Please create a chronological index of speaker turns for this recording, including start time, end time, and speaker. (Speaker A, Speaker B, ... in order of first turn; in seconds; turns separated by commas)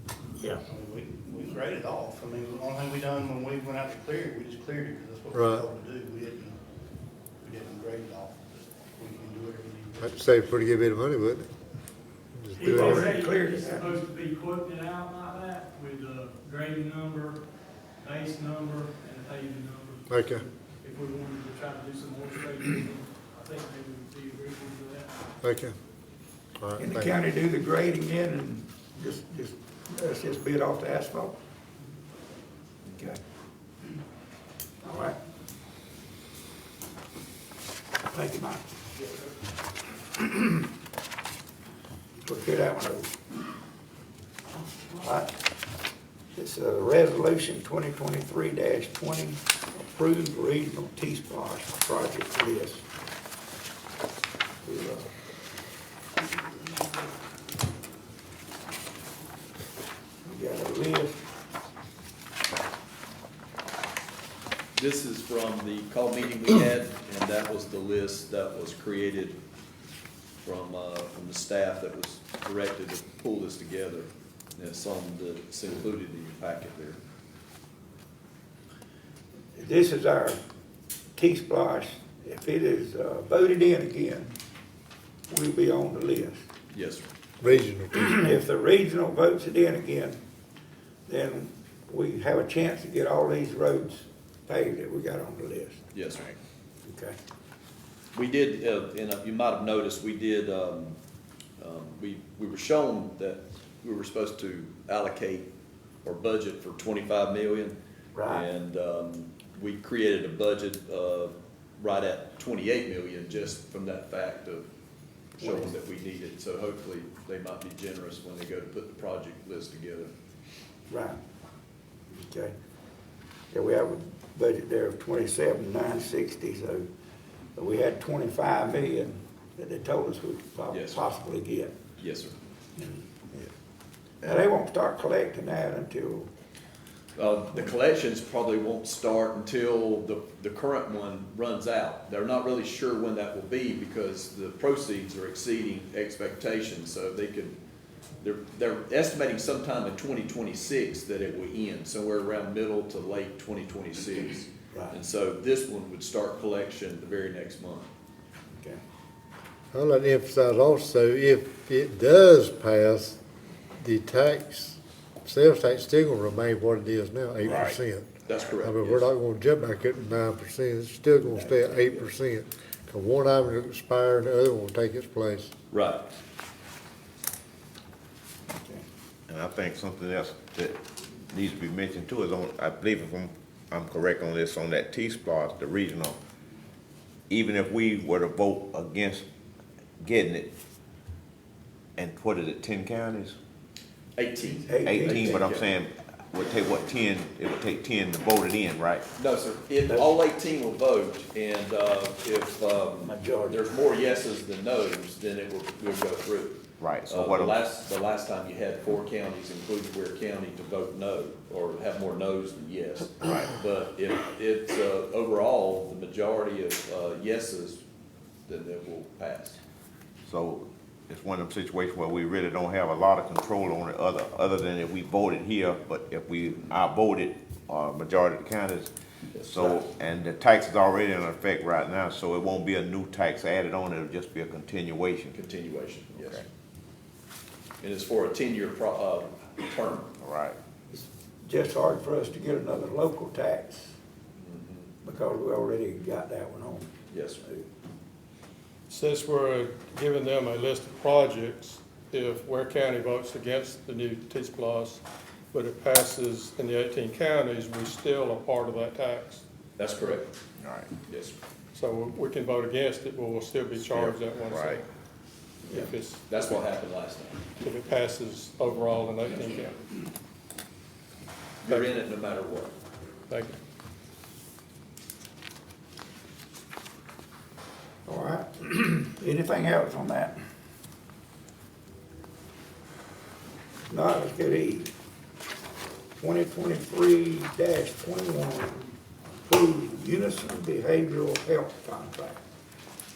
Speaker A: 0.7-6.6, Speaker B: 5.3-5.7, Speaker A: 7.4-10.3, Speaker B: 10.0-11.5, Speaker B: 12.3-13.2, Speaker C: 12.5-17.4, Speaker D: 12.6-13.9, Speaker C: 18.0-25.1, Speaker B: 20.1-20.4, Speaker B: 25.4-25.7, Speaker B: 26.6-27.1, Speaker D: 26.8-31.4, Speaker D: 32.9-33.2, Speaker D: 34.8-35.2, Speaker D: 38.1-38.6, Speaker D: 40.2-40.6, Speaker D: 42.2-43.1, Speaker D: 44.5-45.4, Speaker D: 46.3-52.8, Speaker D: 54.6-55.1, Speaker D: 60.2-61.2, Speaker E: 64.7-69.4, Speaker E: 70.4-77.0, Speaker D: 79.5-80.4, Speaker D: 81.2-84.3, Speaker D: 85.3-86.4, Speaker E: 86.7-87.0, Speaker B: 87.4-88.2, Speaker D: 87.9-90.2, Speaker D: 91.1-95.8, Speaker E: 95.9-96.3, Speaker D: 96.8-97.2, Speaker E: 98.1-101.0, Speaker E: 101.6-105.5, Speaker E: 106.0-114.7, Speaker D: 108.1-108.5, Speaker E: 115.4-120.1, Speaker D: 115.4-115.8, Speaker D: 120.9-121.2, Speaker D: 122.1-122.5, Speaker D: 123.5-126.9, Speaker D: 127.5-131.7, Speaker E: 130.7-131.1, Speaker E: 132.0-132.3, Speaker D: 132.8-133.5, Speaker D: 134.2-136.3, Speaker E: 137.2-147.6, Speaker E: 148.2-157.9, Speaker D: 154.7-155.0, Speaker B: 159.7-163.2, Speaker B: 163.8-175.5, Speaker F: 167.4-167.8, Speaker E: 168.2-169.1, Speaker D: 171.2-172.0, Speaker E: 175.7-176.1, Speaker D: 178.5-178.8, Speaker F: 179.3-186.2, Speaker F: 187.3-189.2, Speaker F: 190.0-190.5, Speaker F: 192.0-193.3, Speaker E: 194.2-195.7, Speaker D: 194.6-195.5, Speaker F: 194.8-199.0, Speaker E: 199.2-217.8, Speaker D: 199.9-200.1, Speaker D: 203.0-203.7, Speaker F: 206.8-207.6, Speaker F: 213.2-213.5, Speaker E: 218.5-219.6, Speaker F: 220.2-235.3, Speaker E: 229.3-229.8, Speaker E: 235.3-236.4, Speaker F: 236.2-236.4, Speaker E: 237.8-240.1, Speaker F: 240.2-240.6, Speaker D: 240.9-243.9, Speaker E: 244.4-244.9, Speaker D: 245.0-246.9, Speaker E: 247.1-247.4, Speaker G: 248.9-259.4, Speaker E: 259.8-260.3, Speaker F: 260.6-260.9, Speaker E: 261.1-261.4, Speaker G: 261.7-264.8, Speaker F: 263.8-264.8, Speaker E: 265.7-267.4, Speaker G: 265.7-266.4, Speaker G: 267.6-269.8, Speaker E: 269.3-269.6, Speaker E: 271.6-272.7, Speaker G: 271.7-272.0, Speaker G: 273.3-273.6, Speaker D: 278.1-280.4, Speaker D: 283.9-284.9, Speaker D: 286.2-288.9, Speaker D: 289.4-292.4